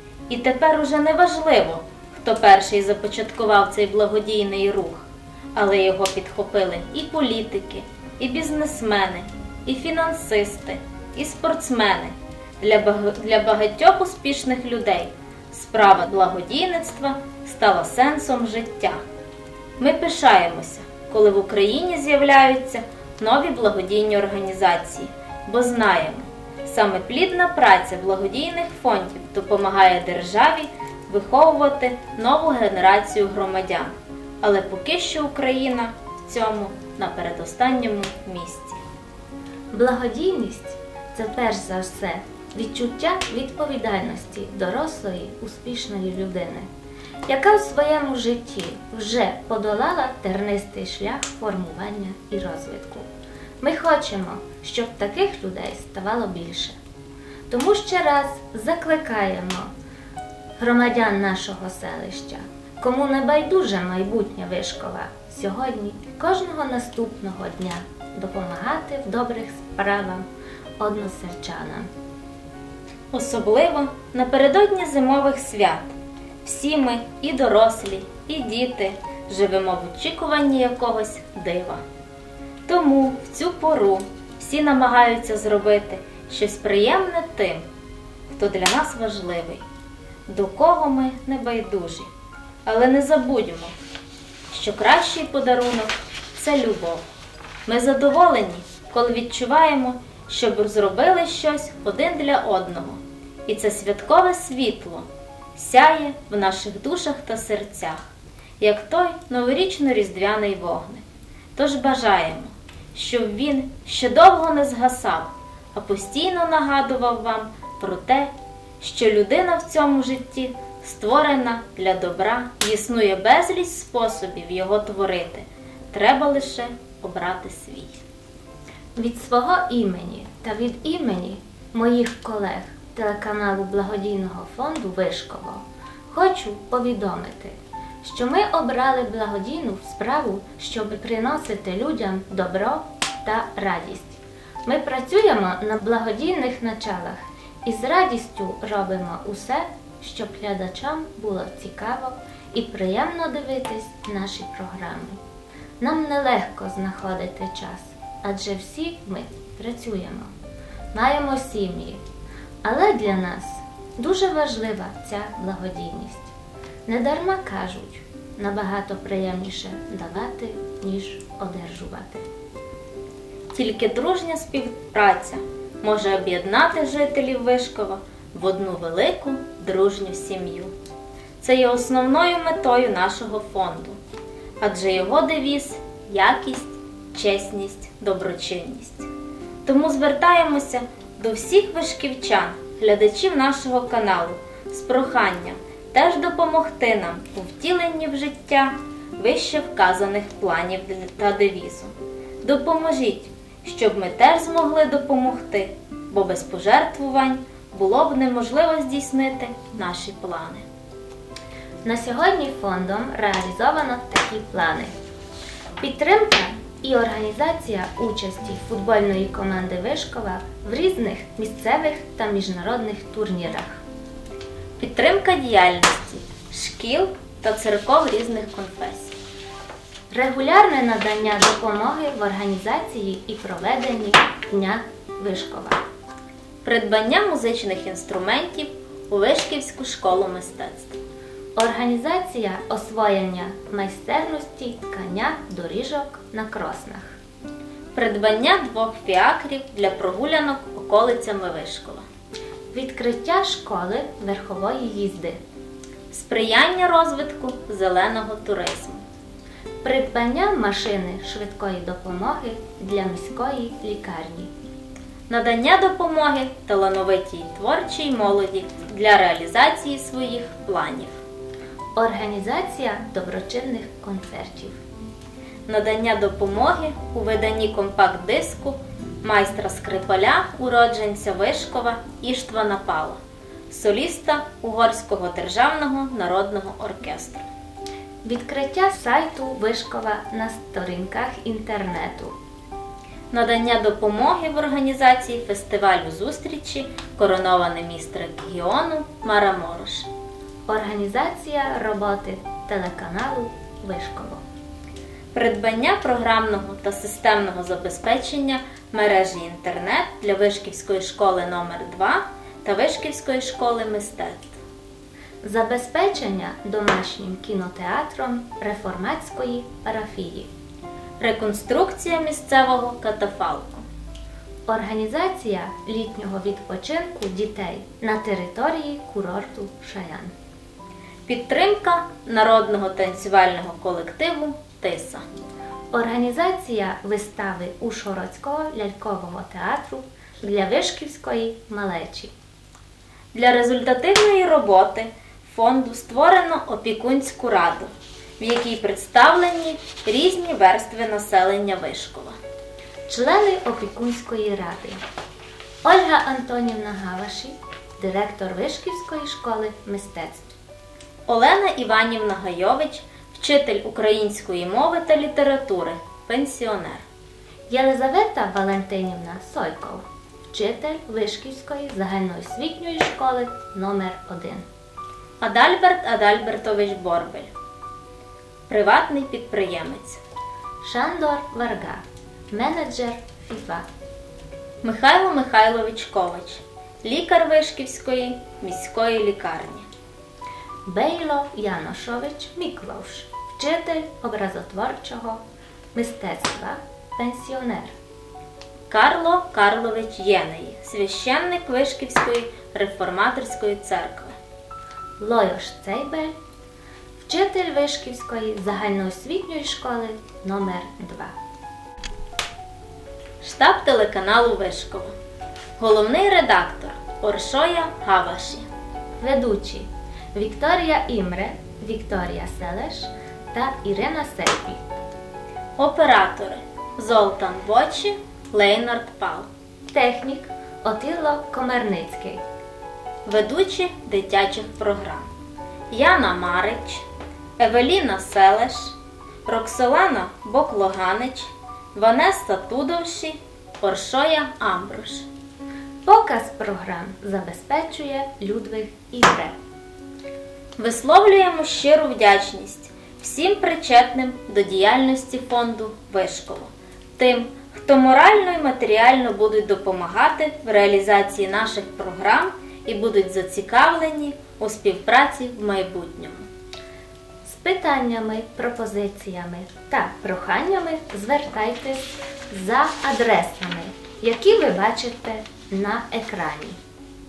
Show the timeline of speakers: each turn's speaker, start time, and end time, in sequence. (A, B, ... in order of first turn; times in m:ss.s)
0:00.3-0:19.0 A
0:19.8-0:38.8 A
0:39.7-0:46.7 B
0:47.3-0:53.0 B
0:53.6-0:56.8 B
0:57.5-0:59.7 B
1:00.6-1:10.2 B
1:10.8-1:11.9 B
1:13.1-1:21.8 A
1:22.6-1:27.6 A
1:28.3-1:29.6 A
1:30.3-1:32.1 A
1:32.6-1:33.7 A
1:34.5-1:37.0 A
1:37.6-1:48.1 A
1:48.6-1:51.0 A
1:51.6-2:08.0 A
2:09.0-2:35.2 B
2:35.8-2:40.3 B
2:40.9-2:42.0 B
2:42.6-2:46.3 B
2:46.9-2:52.2 B
2:53.5-3:00.7 A
3:01.4-3:04.0 A
3:04.6-3:09.1 A
3:09.6-3:30.6 A
3:31.8-3:34.9 B
3:35.8-3:43.8 B
3:44.8-3:49.1 A
3:50.1-3:55.8 B
3:56.6-4:01.0 A
4:01.6-4:07.2 B
4:07.9-4:12.0 A
4:12.7-4:15.4 B
4:16.1-4:19.0 A
4:19.8-4:24.5 B
4:25.3-4:31.2 A
4:32.0-4:34.8 B
4:35.7-4:43.2 A
4:43.7-4:47.5 A
4:48.2-4:52.3 B
4:53.3-5:00.1 A
5:00.7-5:04.4 B
5:05.3-5:14.6 A
5:15.4-5:20.5 B
5:21.2-5:23.8 A
5:24.7-5:30.3 B
5:31.3-5:35.2 A
5:35.9-5:42.3 B
5:43.3-5:52.4 A
5:53.1-5:55.0 B
5:55.8-6:00.5 B
6:01.2-6:07.0 A
6:07.7-6:14.6 B
6:15.4-6:17.5 A
6:18.7-6:20.2 A
6:20.8-6:23.8 B
6:24.8-6:29.9 A
6:30.8-6:35.4 B
6:35.9-6:37.9 B
6:38.9-6:44.3 A
6:45.2-6:46.3 B
6:47.2-6:51.3 B
6:53.4-6:55.1 A
6:55.8-6:58.7 A
6:59.2-7:04.8 B
7:05.8-7:09.5 A
7:09.9-7:12.4 B
7:13.2-7:15.3 A
7:15.9-7:17.0 A
7:17.6-7:25.3 A
7:26.0-7:29.5 B
7:30.8-7:46.4 A
7:47.4-7:56.8 B